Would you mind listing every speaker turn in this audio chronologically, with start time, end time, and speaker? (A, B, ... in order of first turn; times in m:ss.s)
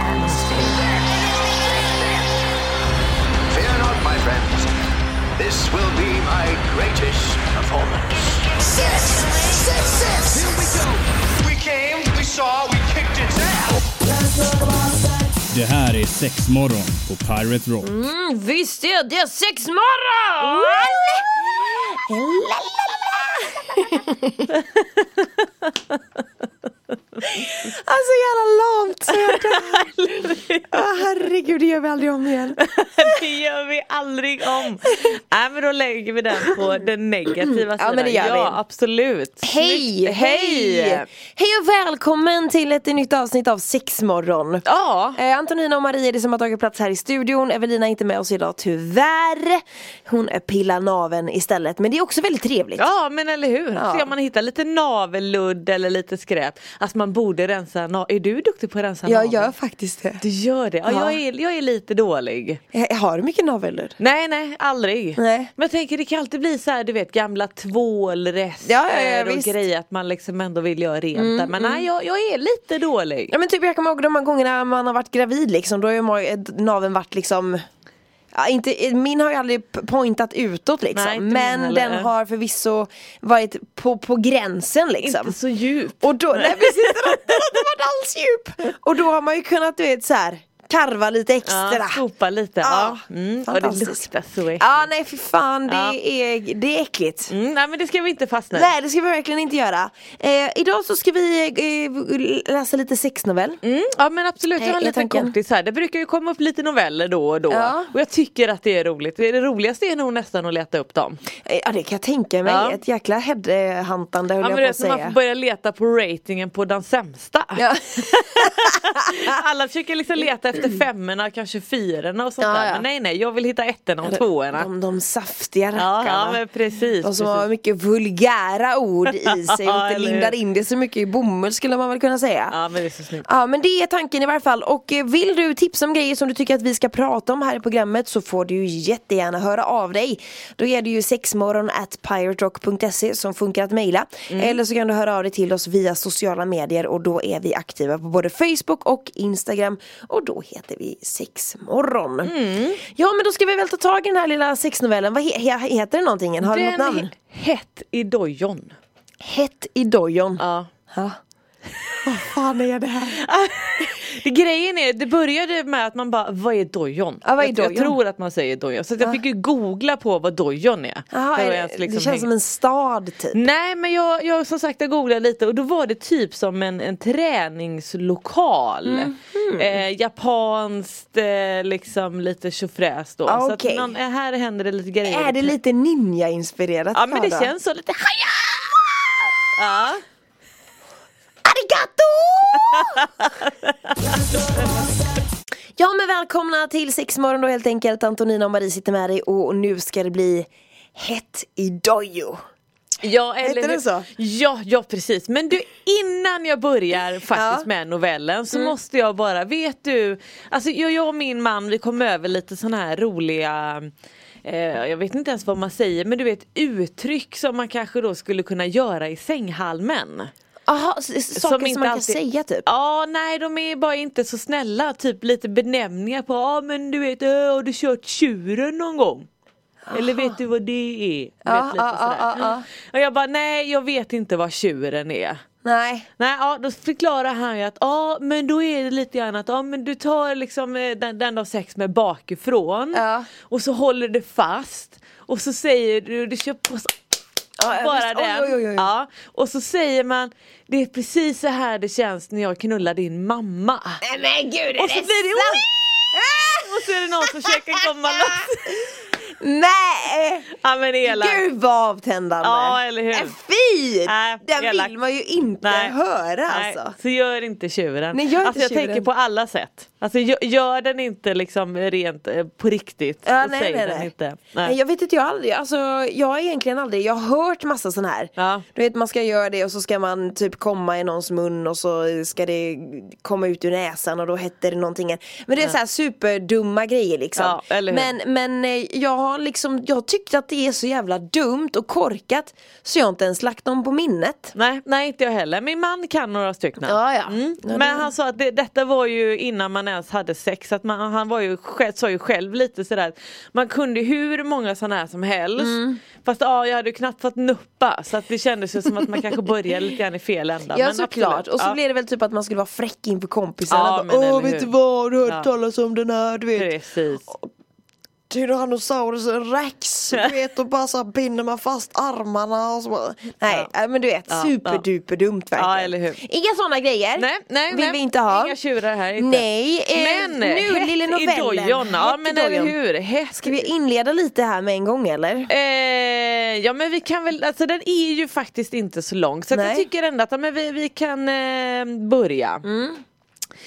0:00.1-0:00.8 A
0:03.5-0:04.7 B
0:05.4-0:13.8 B
0:15.5-0:17.9 C
0:17.8-0:24.4 D
0:20.4-0:21.2 A
0:24.5-0:26.0 A
0:27.2-0:32.6 D
0:29.3-0:30.8 A
0:32.6-0:41.0 A
0:37.8-0:38.6 D
0:39.4-0:52.9 D
0:44.6-0:45.2 A
0:52.8-0:59.5 A
0:53.7-0:54.1 D
0:59.0-1:00.2 D
1:00.2-1:02.6 A
1:00.9-1:01.2 D
1:02.7-1:04.0 D
1:04.0-1:13.3 A
1:05.2-1:05.5 D
1:08.6-1:09.6 D
1:11.1-1:11.8 D
1:13.3-1:17.6 D
1:18.3-1:25.4 D
1:20.9-1:22.1 A
1:25.0-1:27.4 A
1:26.0-1:32.0 D
1:31.4-1:34.9 A
1:32.6-1:34.0 D
1:34.6-1:37.3 D
1:35.7-1:36.0 A
1:37.3-1:38.7 A
1:38.5-1:43.6 D
1:43.6-1:51.2 A
1:44.6-1:45.3 D
1:47.5-1:47.9 D
1:51.4-1:55.2 D
1:52.4-1:52.8 A
1:54.4-2:04.7 A
1:57.6-1:59.3 D
2:02.4-2:02.8 D
2:04.0-2:06.4 D
2:05.8-2:07.5 A
2:07.0-2:12.6 D
2:09.1-2:10.3 A
2:12.5-2:13.2 A
2:13.2-2:37.1 D
2:24.3-2:24.6 A
2:32.2-2:32.8 A
2:36.4-2:38.8 A
2:39.2-2:41.2 D
2:40.4-2:40.7 A
2:42.0-2:43.2 D
2:43.1-2:52.3 A
2:47.2-2:48.0 D
2:51.1-2:53.4 D
2:53.3-3:05.5 A
2:58.8-2:59.8 D
3:03.3-3:03.9 D
3:05.0-3:07.5 D
3:06.9-3:08.9 A
3:09.5-3:10.0 A
3:11.4-3:13.1 D
3:12.9-3:13.9 A
3:15.8-3:22.4 D
3:23.0-3:33.9 A
3:23.4-3:24.1 D
3:27.3-3:27.7 D
3:34.4-3:40.3 A
3:40.7-3:42.7 D
3:41.3-3:49.3 A
3:49.8-3:50.4 D
3:49.9-3:55.4 A
3:51.4-3:52.6 D
3:55.6-3:56.1 D
3:56.2-4:07.0 A
4:02.9-4:03.3 D
4:07.6-4:08.9 D
4:07.6-4:14.0 A
4:14.0-4:18.7 D
4:14.8-4:15.8 A
4:16.6-4:18.7 A
4:19.4-4:20.5 D
4:20.5-4:21.4 A
4:21.0-4:26.9 D
4:22.4-4:23.4 A
4:24.0-4:24.9 A
4:25.6-4:26.0 A
4:26.5-4:34.8 A
4:28.1-4:29.1 D
4:33.2-4:34.1 D
4:34.6-4:54.5 D
4:38.4-4:38.6 A
4:47.4-4:48.1 A
4:54.5-5:11.8 A
4:56.8-4:58.1 D
5:05.6-5:06.0 D
5:10.7-5:16.7 D
5:13.7-5:14.7 A
5:16.5-5:17.3 A
5:18.3-5:28.6 D
5:24.3-5:24.8 A
5:25.6-5:26.2 A
5:27.2-5:33.7 A
5:29.2-5:32.8 D
5:33.4-5:35.5 D
5:35.5-5:42.6 A
5:39.5-5:39.9 D
5:42.6-5:43.0 D